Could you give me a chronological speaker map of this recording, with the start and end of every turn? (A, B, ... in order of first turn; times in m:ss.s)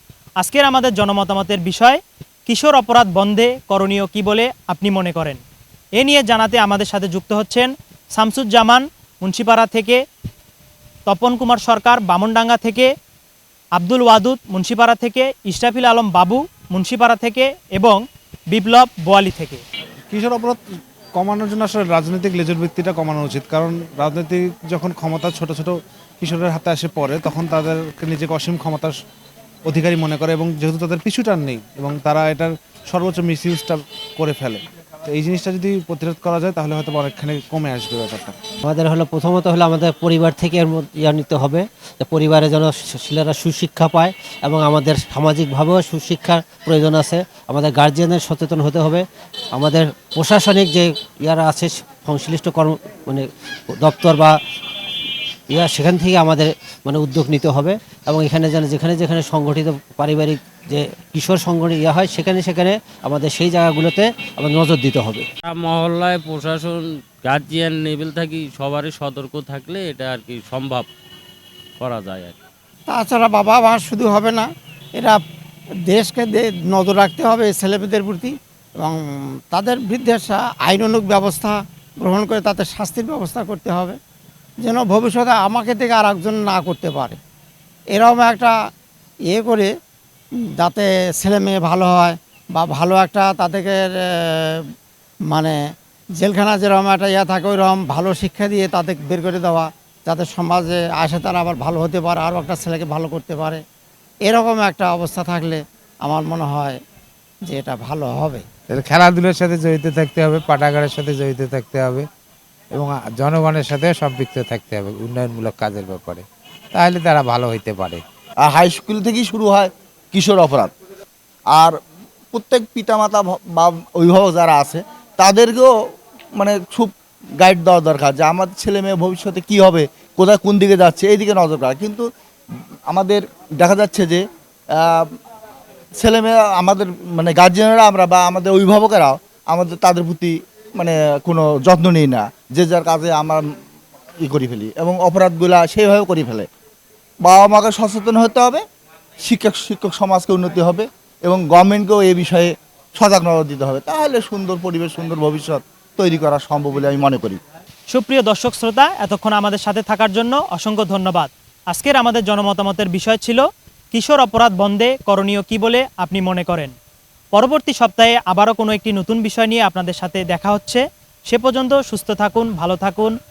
0:00.4-0:05.4 A
0:06.0-0:10.0 A
0:11.1-0:12.9 A
0:13.8-0:19.6 A
0:20.1-0:29.0 B
0:29.6-0:38.4 B
0:38.6-0:54.4 C
0:55.5-1:05.3 C
1:05.4-1:10.9 D
1:11.8-1:12.4 D
1:12.9-1:15.2 E
1:15.9-1:19.0 E
1:19.5-1:24.0 E
1:24.6-1:27.2 E
1:27.9-1:28.5 E
1:29.3-1:29.7 E
1:30.6-1:34.6 E
1:35.3-1:35.6 E
1:36.2-1:43.6 E
1:44.2-1:46.8 E
1:47.5-1:48.4 E
1:48.7-1:52.1 F
1:52.8-1:56.2 F
1:56.8-1:58.0 F
1:58.4-2:00.7 G
2:02.3-2:05.7 G
2:06.4-2:12.1 G
2:12.9-2:14.2 G
2:14.8-2:15.1 G
2:16.0-2:23.4 G
2:24.2-2:26.5 G
2:27.2-2:28.6 G
2:29.2-2:37.4 G
2:37.9-2:46.8 A
2:47.3-2:53.2 A